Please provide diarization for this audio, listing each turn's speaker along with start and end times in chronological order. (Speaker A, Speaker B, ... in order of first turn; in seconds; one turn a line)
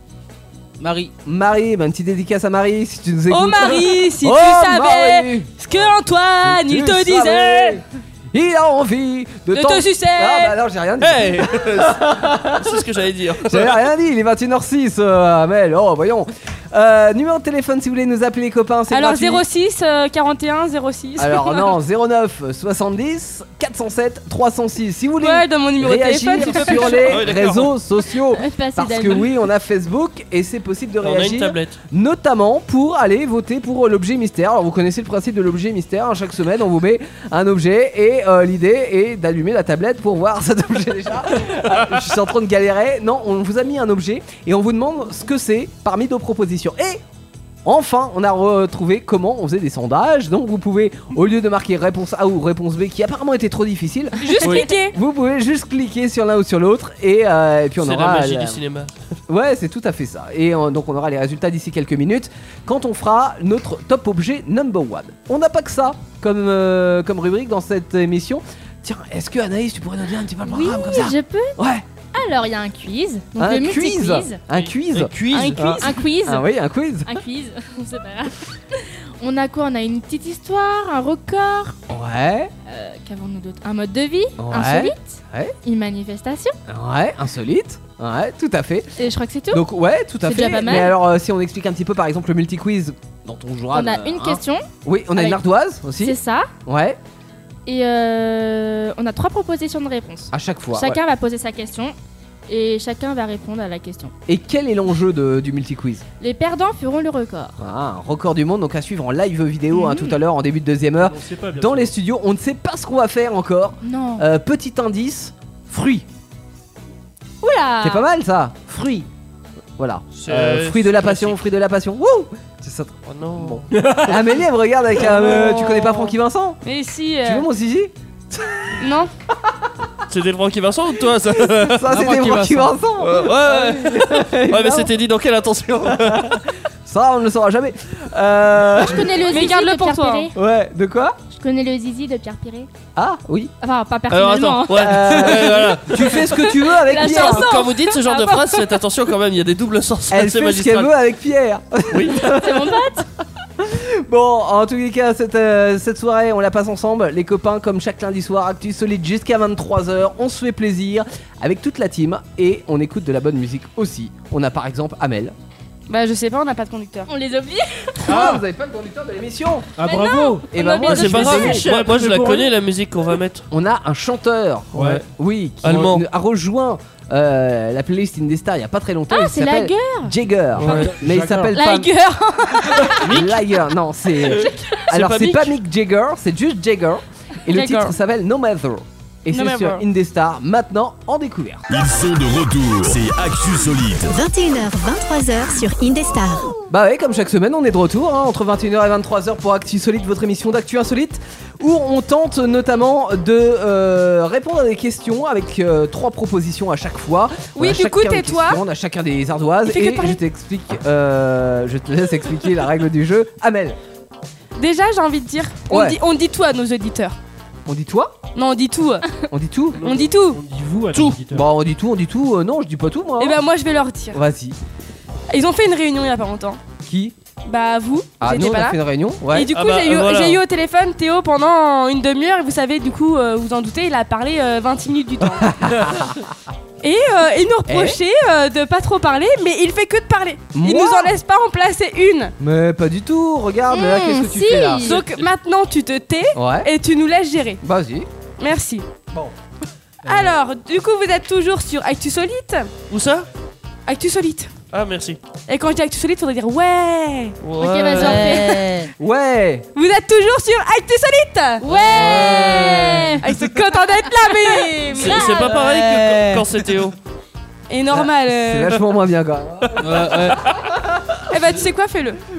Speaker A: 0.8-1.1
Speaker B: 1.2-5.5
Speaker C: 3.3-7.8
Speaker B: 6.4-12.8
Speaker C: 9.5-10.5
Speaker D: 11.0-13.9
Speaker B: 13.4-19.4
Speaker C: 18.9-21.8
Speaker B: 21.2-47.0
Speaker C: 25.2-27.2
Speaker D: 26.9-27.7
Speaker E: 28.4-29.4
Speaker D: 31.0-31.8
Speaker B: 47.6-58.6
Speaker C: 54.2-55.0
Speaker D: 57.8-59.0
Speaker B: 59.3-71.8
Speaker E: 70.4-71.6
Speaker E: 72.1-74.4
Speaker B: 73.3-77.1
Speaker D: 74.5-75.7
Speaker C: 75.3-76.0
Speaker E: 75.8-76.5
Speaker E: 77.0-78.4
Speaker E: 79.2-81.8
Speaker B: 81.9-82.5
Speaker E: 82.7-86.6
Speaker B: 84.4-85.5
Speaker B: 86.7-88.9
Speaker E: 89.0-89.6
Speaker B: 89.5-97.0
Speaker E: 90.2-91.0
Speaker E: 93.7-95.4
Speaker E: 96.0-96.5
Speaker E: 97.7-101.9
Speaker B: 100.3-101.0
Speaker E: 102.5-104.1
Speaker B: 104.3-106.0
Speaker E: 106.2-107.6
Speaker B: 107.6-116.0
Speaker E: 109.7-110.1
Speaker F: 111.0-111.9
Speaker E: 113.8-114.2
Speaker E: 117.4-118.0
Speaker B: 117.8-119.1
Speaker B: 119.8-126.6
Speaker D: 120.1-121.4
Speaker D: 123.0-123.7
Speaker F: 123.7-124.3
Speaker C: 126.6-127.4
Speaker B: 127.2-128.8
Speaker C: 128.8-129.1
Speaker D: 130.1-131.9
Speaker B: 131.6-134.9
Speaker A: 131.9-132.7
Speaker D: 133.0-136.4
Speaker B: 135.8-139.2
Speaker E: 138.8-140.3
Speaker C: 139.3-140.3
Speaker B: 140.3-141.2
Speaker E: 141.3-142.7
Speaker B: 142.9-143.5
Speaker E: 143.6-145.2
Speaker D: 144.1-146.4
Speaker B: 144.7-147.6
Speaker C: 146.7-148.4
Speaker D: 147.0-150.9
Speaker B: 150.1-152.8
Speaker D: 151.9-152.2
Speaker E: 152.2-153.0
Speaker B: 153.6-165.3
Speaker C: 165.9-167.1
Speaker E: 167.1-168.2
Speaker B: 168.1-169.7
Speaker F: 168.1-168.4
Speaker F: 169.8-172.5
Speaker E: 169.8-171.0
Speaker B: 170.5-171.7
Speaker D: 170.8-173.5
Speaker B: 173.5-181.9
Speaker F: 174.7-175.0
Speaker D: 175.6-176.0
Speaker E: 179.1-180.1
Speaker F: 180.6-181.5
Speaker E: 181.5-182.9
Speaker C: 182.3-182.9
Speaker B: 183.0-191.7
Speaker D: 184.7-185.5
Speaker C: 187.5-187.9
Speaker C: 189.3-189.8
Speaker G: 191.7-194.2
Speaker H: 194.1-196.5
Speaker B: 196.7-213.8
Speaker C: 207.6-208.6
Speaker C: 209.7-210.2
Speaker C: 214.6-217.2
Speaker B: 215.7-216.0
Speaker B: 217.7-218.2
Speaker C: 218.3-219.2
Speaker B: 219.3-219.8
Speaker F: 219.8-221.5
Speaker C: 219.8-220.4
Speaker A: 220.9-221.2
Speaker B: 221.3-223.4
Speaker C: 223.2-224.2
Speaker B: 224.1-224.6
Speaker C: 225.3-226.6
Speaker B: 226.8-227.2
Speaker C: 227.4-228.8
Speaker B: 228.2-229.5
Speaker C: 229.3-235.8
Speaker D: 229.5-230.4
Speaker B: 235.2-236.2
Speaker C: 236.8-242.3
Speaker B: 237.7-238.0
Speaker B: 240.5-241.1
Speaker B: 242.4-245.2
Speaker E: 243.7-245.0
Speaker C: 244.8-247.6
Speaker B: 246.3-246.7
Speaker B: 247.6-248.1
Speaker C: 248.4-248.9
Speaker C: 250.0-252.7
Speaker D: 252.9-253.3
Speaker C: 253.8-254.5
Speaker D: 254.7-255.2
Speaker C: 255.5-257.4
Speaker D: 257.4-258.4
Speaker E: 257.6-258.6
Speaker A: 258.0-258.9
Speaker C: 258.0-258.5
Speaker B: 259.0-259.7
Speaker C: 259.7-262.5
Speaker E: 261.6-263.2
Speaker A: 261.9-263.0
Speaker B: 262.0-263.1
Speaker C: 263.2-265.3
Speaker E: 264.7-265.5
Speaker D: 264.9-266.9
Speaker A: 265.2-266.6
Speaker C: 267.7-268.8
Speaker B: 267.9-271.2
Speaker A: 269.8-270.4
Speaker C: 271.3-272.2